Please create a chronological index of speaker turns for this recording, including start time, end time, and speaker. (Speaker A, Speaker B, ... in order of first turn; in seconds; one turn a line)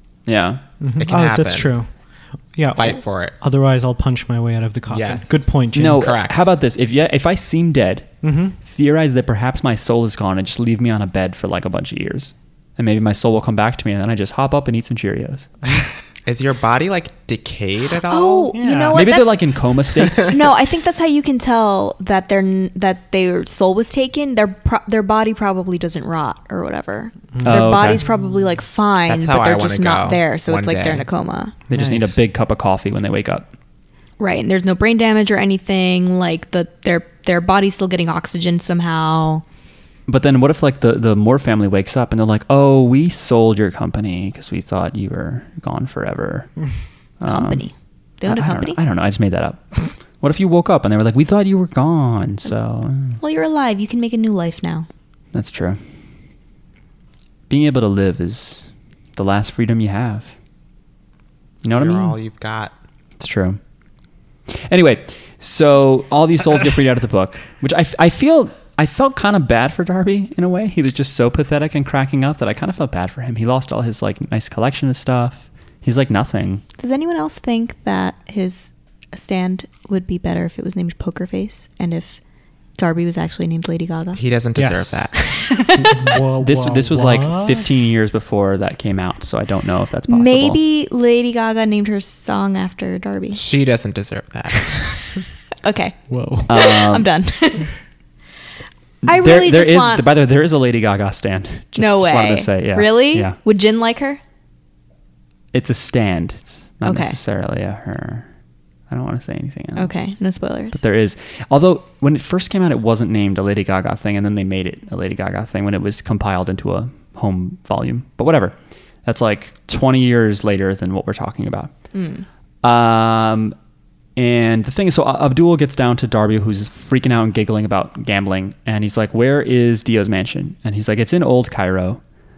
Speaker A: 0.3-0.6
Speaker B: 0.8-1.9
Speaker C: 1.0-1.7
Speaker B: 2.5-6.1
Speaker C: 2.7-3.4
Speaker C: 4.9-6.5
Speaker A: 5.7-8.1
Speaker B: 8.2-8.6
Speaker A: 8.6-15.6
Speaker C: 16.2-18.6
Speaker D: 18.1-19.4
Speaker B: 18.5-19.0
Speaker A: 18.9-20.4
Speaker C: 20.0-20.3
Speaker D: 20.2-31.5
Speaker B: 27.4-28.1
Speaker A: 27.4-28.0
Speaker C: 29.1-31.1
Speaker A: 31.7-33.5
Speaker B: 31.7-32.1
Speaker D: 34.2-39.4
Speaker A: 40.1-46.5
Speaker A: 47.2-47.6
Speaker D: 47.3-48.8
Speaker A: 48.2-53.2
Speaker D: 53.2-54.9
Speaker A: 55.3-55.8
Speaker A: 57.5-58.6
Speaker A: 59.1-60.3
Speaker A: 61.6-62.2
Speaker C: 61.7-62.7
Speaker A: 63.2-63.6
Speaker A: 64.5-76.6
Speaker D: 76.8-82.2
Speaker D: 82.8-84.2
Speaker C: 84.2-85.4
Speaker B: 84.6-85.1
Speaker D: 85.2-86.2
Speaker B: 85.8-87.7
Speaker A: 86.4-90.6
Speaker D: 90.1-93.4
Speaker C: 93.3-95.2
Speaker D: 95.6-97.7
Speaker B: 96.1-96.5
Speaker A: 96.5-97.1
Speaker A: 99.0-103.4
Speaker D: 99.0-100.1
Speaker D: 101.8-104.2
Speaker A: 105.5-108.3
Speaker D: 106.8-107.2
Speaker A: 108.9-109.9
Speaker D: 109.8-110.8
Speaker A: 110.7-121.7
Speaker D: 121.9-122.3
Speaker A: 122.6-123.5
Speaker A: 124.2-132.0